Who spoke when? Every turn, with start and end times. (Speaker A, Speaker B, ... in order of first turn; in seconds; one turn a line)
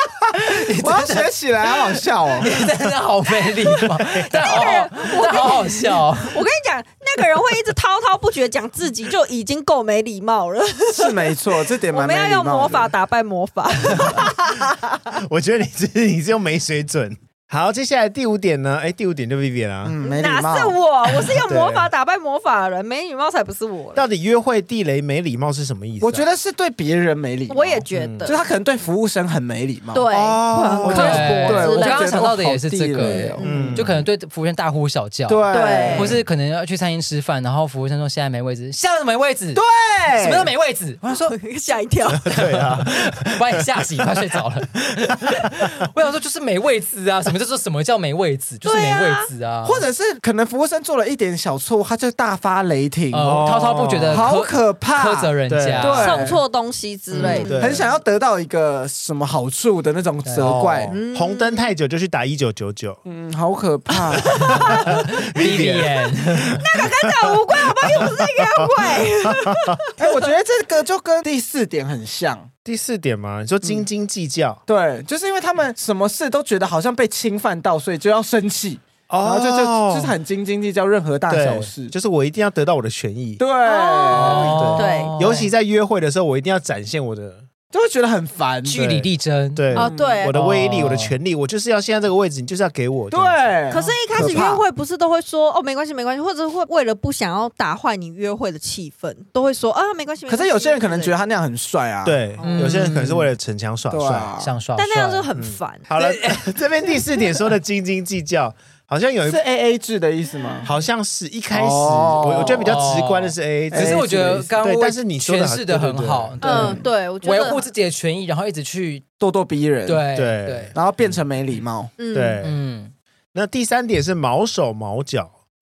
Speaker A: 0.3-2.5
Speaker B: 0.4-1.3
Speaker B: 2.4-6.4
Speaker C: 4.1-11.3
Speaker A: 10.9-12.9
Speaker C: 11.9-15.0
Speaker D: 13.9-19.9
Speaker A: 19.8-20.8
Speaker C: 20.0-24.0
Speaker D: 21.3-21.9
Speaker D: 23.9-26.3
Speaker A: 26.0-33.8
Speaker C: 27.5-28.4
Speaker D: 27.9-28.3
Speaker C: 29.9-32.3
Speaker D: 30.8-31.3
Speaker B: 30.9-39.6
Speaker C: 33.0-33.7
Speaker D: 33.4-34.0
Speaker A: 35.3-36.2
Speaker C: 35.5-36.1
Speaker A: 39.5-40.5
Speaker B: 40.2-41.3
Speaker C: 41.1-42.4
Speaker D: 42.1-44.2
Speaker B: 42.3-49.8
Speaker C: 48.6-49.3
Speaker A: 49.6-53.5
Speaker B: 53.1-56.2
Speaker D: 53.2-54.3
Speaker A: 54.1-56.4
Speaker D: 55.5-56.1
Speaker C: 55.8-57.8
Speaker B: 57.2-57.5
Speaker D: 57.2-57.9
Speaker A: 57.2-61.0
Speaker B: 60.2-61.0
Speaker C: 60.9-61.7
Speaker D: 61.1-63.0
Speaker A: 63.0-64.7
Speaker C: 64.2-65.0
Speaker D: 64.3-69.8
Speaker B: 64.8-66.6
Speaker C: 66.6-70.2
Speaker A: 70.0-72.5
Speaker D: 72.6-74.6
Speaker A: 74.7-81.9
Speaker D: 79.1-80.1
Speaker D: 81.3-83.4
Speaker A: 83.4-84.7
Speaker C: 83.6-85.4
Speaker B: 84.2-85.5
Speaker D: 84.2-87.4
Speaker A: 87.7-88.8
Speaker B: 88.7-89.7
Speaker D: 88.7-93.5
Speaker A: 89.7-90.3
Speaker C: 89.7-90.4
Speaker B: 90.3-91.2
Speaker A: 93.1-94.5
Speaker C: 93.7-101.1
Speaker D: 94.2-94.6
Speaker A: 100.3-103.3
Speaker D: 102.0-104.3
Speaker B: 102.4-103.2
Speaker A: 103.9-104.5
Speaker B: 104.4-105.2
Speaker C: 104.8-105.9
Speaker D: 105.3-109.4
Speaker B: 106.0-106.5
Speaker A: 109.2-110.7
Speaker D: 110.6-116.3
Speaker A: 111.5-112.8
Speaker B: 112.5-119.0
Speaker A: 113.7-114.5
Speaker A: 116.4-116.8
Speaker C: 116.4-117.7
Speaker A: 119.2-120.0
Speaker B: 119.8-120.7
Speaker D: 120.1-120.8
Speaker A: 120.7-121.9
Speaker C: 122.0-122.4
Speaker D: 122.1-122.6
Speaker B: 122.4-122.9
Speaker D: 123.3-125.3